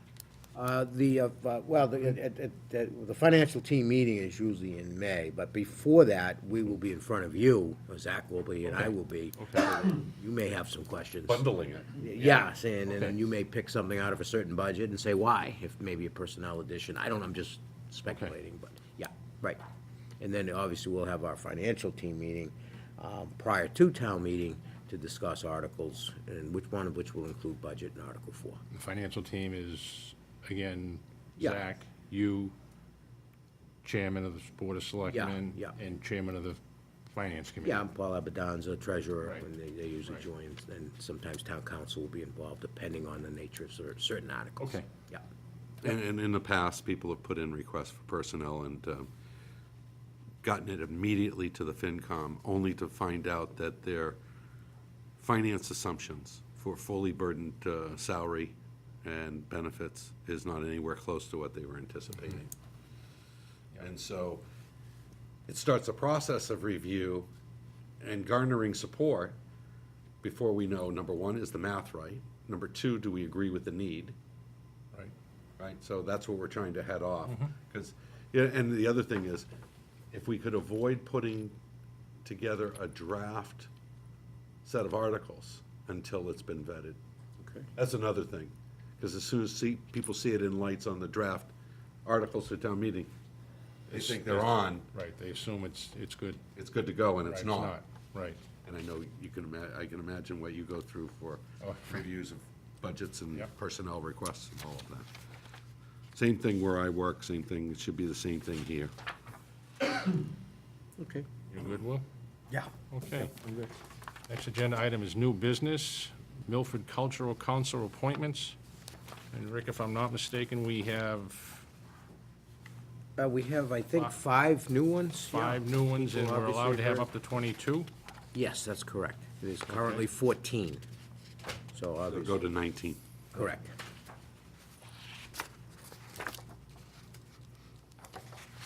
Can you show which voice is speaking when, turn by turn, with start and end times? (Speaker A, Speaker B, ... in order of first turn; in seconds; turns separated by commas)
Speaker A: 0.5-11.4, Speaker B: 11.3-12.1, Speaker A: 12.0-19.6, Speaker A: 20.2-28.6, Speaker C: 28.7-32.5, Speaker C: 33.8-36.6, Speaker A: 35.0-35.7, Speaker C: 37.1-37.8, Speaker A: 37.6-45.2, Speaker B: 45.8-49.1, Speaker B: 50.4-54.2, Speaker B: 55.2-62.5, Speaker B: 63.8-64.4, Speaker B: 65.5-67.3, Speaker B: 68.0-69.3, Speaker B: 70.2-74.1, Speaker B: 75.6-79.5, Speaker B: 80.1-81.5, Speaker B: 82.2-83.7, Speaker B: 84.6-87.0, Speaker A: 87.4-87.7, Speaker B: 87.7-91.5, Speaker B: 92.0-93.1, Speaker B: 93.9-94.9, Speaker C: 93.9-96.4, Speaker B: 96.5-97.8, Speaker C: 97.3-98.4, Speaker B: 98.6-105.1, Speaker C: 101.6-101.9, Speaker B: 106.1-108.9, Speaker A: 111.0-111.2, Speaker C: 111.5-112.0, Speaker C: 112.9-113.3, Speaker A: 113.2-113.7, Speaker C: 114.3-118.5, Speaker C: 119.3-121.6, Speaker A: 123.2-127.1, Speaker C: 125.3-127.9, Speaker A: 128.3-130.8, Speaker C: 129.7-130.0, Speaker A: 131.7-132.4, Speaker B: 132.1-133.0, Speaker A: 133.3-133.7